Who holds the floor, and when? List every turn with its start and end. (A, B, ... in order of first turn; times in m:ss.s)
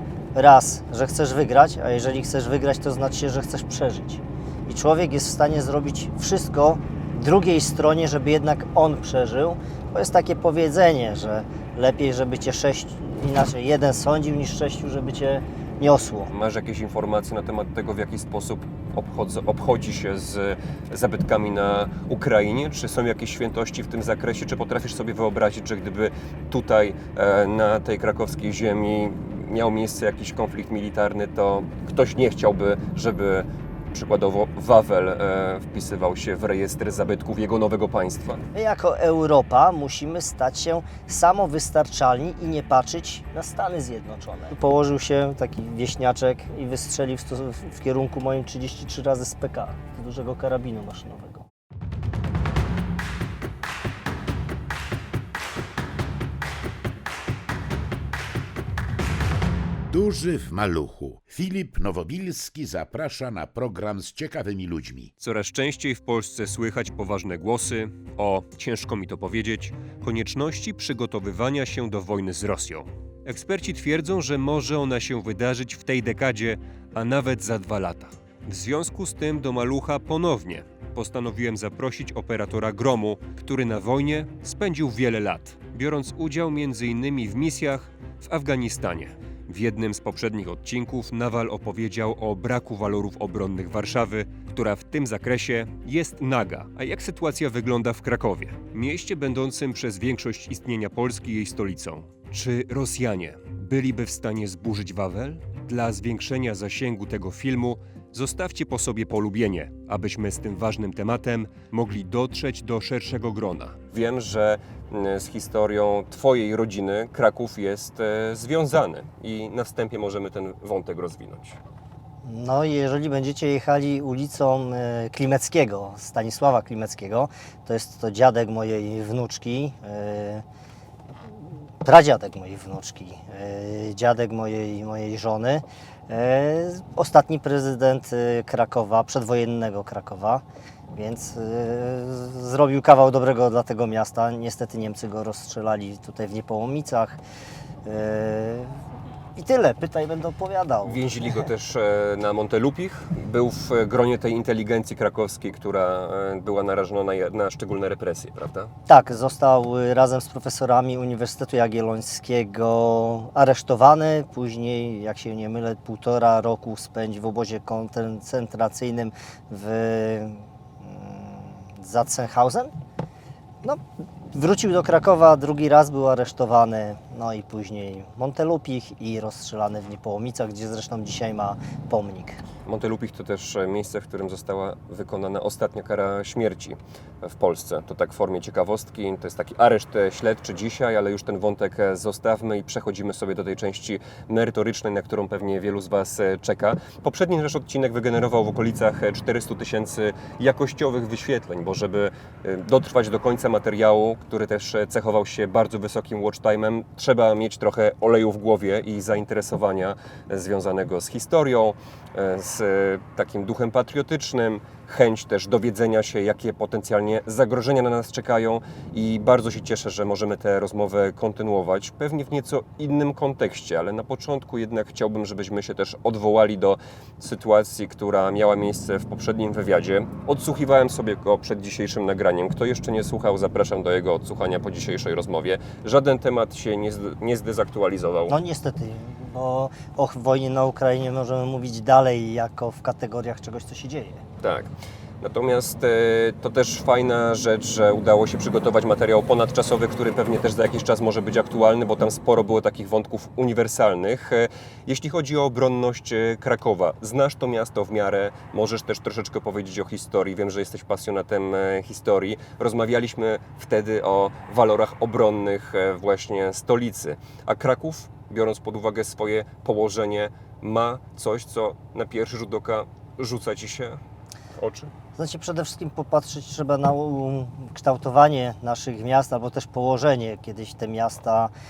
0:00.3-0:16.3 A
0:16.3-0:38.4 B
0:38.5-0:51.5 A
0:59.9-1:05.1 C
1:05.2-2:01.6 B
2:02.2-2:10.4 A
2:11.8-2:27.2 A
2:27.8-2:28.8 A
2:29.4-2:31.3 A
2:30.8-2:38.7 B
2:38.9-2:52.7 A
2:53.6-3:02.4 A
3:02.7-3:58.3 B
3:58.3-4:04.2 A
4:04.4-4:34.0 B
4:34.6-4:34.9 B
4:35.2-4:41.5 A